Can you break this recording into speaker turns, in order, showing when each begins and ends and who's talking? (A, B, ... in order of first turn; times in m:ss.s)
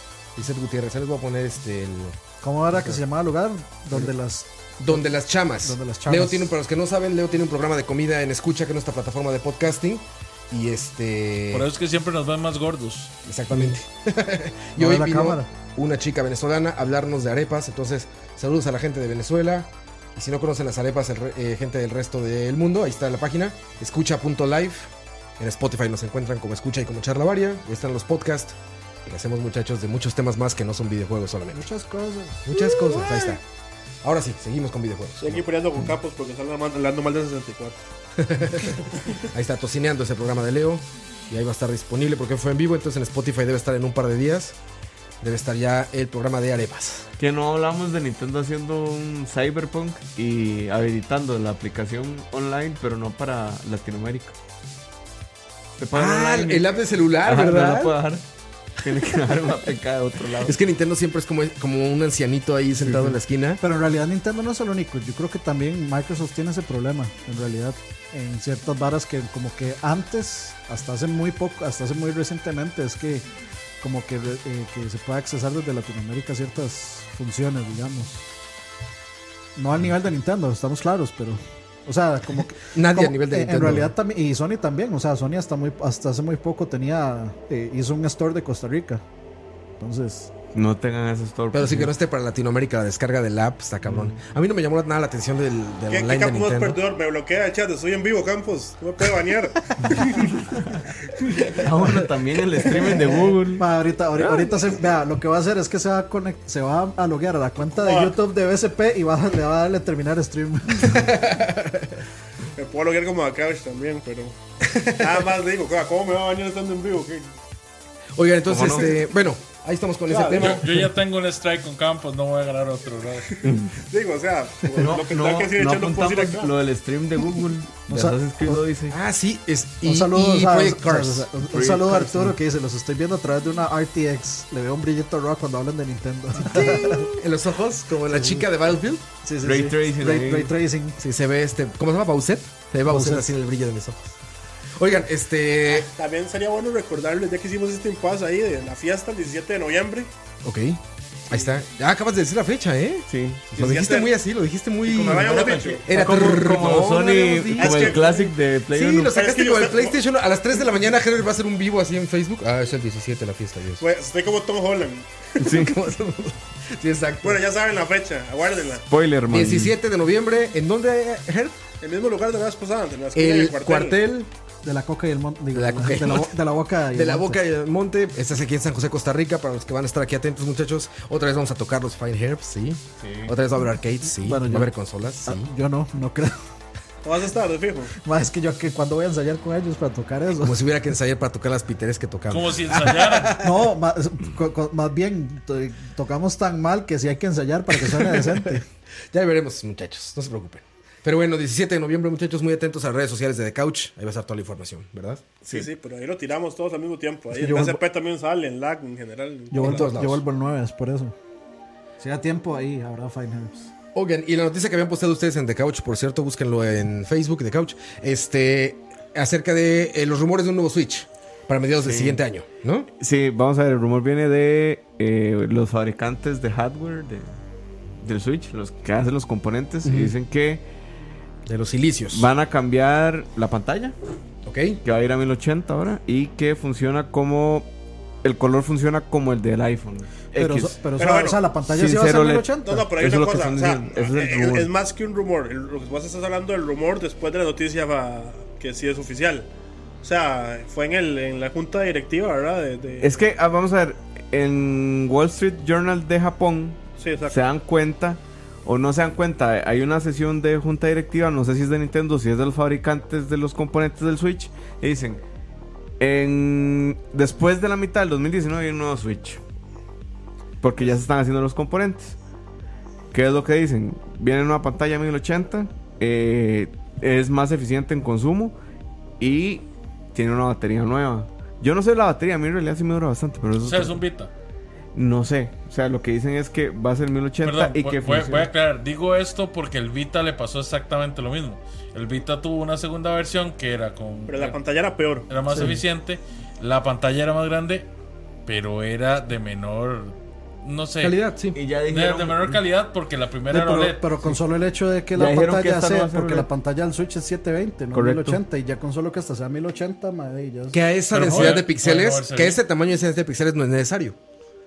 0:00.4-0:02.2 A
0:02.4-0:05.1 B
0:02.7-0:03.0 A
0:04.8-0:11.7 A
0:05.6-0:06.6 B
0:11.5-0:13.1 C
0:13.3-0:31.6 A
0:14.8-0:15.5 B
0:31.5-0:33.0 B
0:32.5-0:33.4 A
0:34.0-0:35.5 A
0:35.2-0:37.8 D
0:38.2-0:44.6 A
0:45.2-0:47.1 A
0:47.2-0:54.4 E
0:55.8-0:56.7 E
0:55.9-0:58.0 A
0:57.2-0:58.2 E
0:58.8-1:00.6 E
1:00.4-1:03.6 A
1:02.9-1:03.2 E
1:03.6-1:13.2 B
1:13.8-1:18.2 B
1:19.6-1:29.0 B
1:22.7-1:23.9 A
1:29.8-1:30.3 B
1:30.5-1:31.9 E
1:31.5-1:36.8 A
1:33.9-1:34.2 E
1:35.9-1:40.4 D
1:41.2-1:41.6 D
1:41.5-1:43.6 E
1:42.9-1:51.2 B
1:47.7-1:48.2 D
1:50.9-1:52.0 A
1:52.6-1:54.4 D
1:54.7-1:55.2 A
1:55.0-1:57.3 D
1:58.2-2:00.7 A
1:58.5-1:59.0 E
2:00.1-2:00.6 D
2:00.4-2:03.4 C
2:03.3-2:06.5 D
2:03.4-2:03.8 E
2:04.8-2:09.0 E
2:07.9-2:08.6 B
2:08.9-2:11.3 A
2:09.8-2:17.1 B
2:11.5-2:12.4 E
2:16.4-2:19.0 A
2:18.1-2:18.4 B
2:19.2-2:21.0 B
2:19.4-2:20.6 E
2:21.0-2:24.1 A
2:22.9-2:23.3 B
2:24.8-2:25.9 A
2:25.7-2:30.1 D
2:30.4-2:43.8 A
2:33.1-2:33.5 E
2:33.5-2:34.1 D
2:34.9-2:36.1 D
2:35.2-2:39.2 E
2:37.6-2:38.3 D
2:39.1-2:40.0 D
2:43.8-2:45.1 D
2:45.4-2:45.7 E
2:45.4-2:47.4 A
2:47.2-2:48.9 D
2:48.9-2:49.8 E
2:49.3-2:51.6 A
2:51.8-2:54.0 D
2:53.2-2:54.3 A
2:54.6-2:57.4 B
2:55.5-2:56.4 A
2:56.9-3:05.5 A
3:03.0-3:03.3 E
3:04.2-3:04.7 B
3:05.3-3:06.4 B
3:07.0-3:07.9 D
3:08.0-3:10.6 B
3:10.4-3:13.6 A
3:12.3-3:13.4 C
3:13.4-3:18.6 B
3:18.1-3:18.4 A
3:19.1-3:25.2 A
3:25.4-3:29.9 D
3:27.3-3:27.8 B
3:29.5-3:31.1 B
3:29.6-3:30.2 A
3:32.0-3:33.7 B
3:34.0-3:42.9 A
3:41.8-3:42.2 E
3:43.0-3:47.3 E
3:48.0-3:50.6 E
3:49.8-3:50.1 A
3:51.5-3:52.3 A
3:52.1-3:54.0 E
3:54.4-3:54.8 A
3:54.8-3:57.7 E
3:58.2-4:00.8 E
4:00.3-4:02.9 B
4:01.0-4:01.4 D
4:01.7-4:04.7 E
4:02.6-4:09.5 D
4:10.0-4:13.2 D
4:13.0-4:25.2 E
4:17.0-4:17.4 D
4:26.0-4:29.4 E
4:30.6-4:32.2 E
4:33.1-4:38.6 E
4:39.2-4:44.0 E
4:43.6-4:44.3 C
4:45.0-4:48.5 E
4:47.4-4:54.6 C
4:54.3-4:55.3 D
4:55.3-4:57.9 C
4:55.5-4:55.8 B
4:58.5-5:01.2 C
5:01.0-5:01.6 A
5:01.5-5:02.6 E
5:01.9-5:04.0 C
5:03.5-5:10.8 B
5:05.1-5:06.5 E
5:07.9-5:08.4 E
5:10.7-5:14.2 A
5:11.1-5:12.6 C
5:11.3-5:11.6 E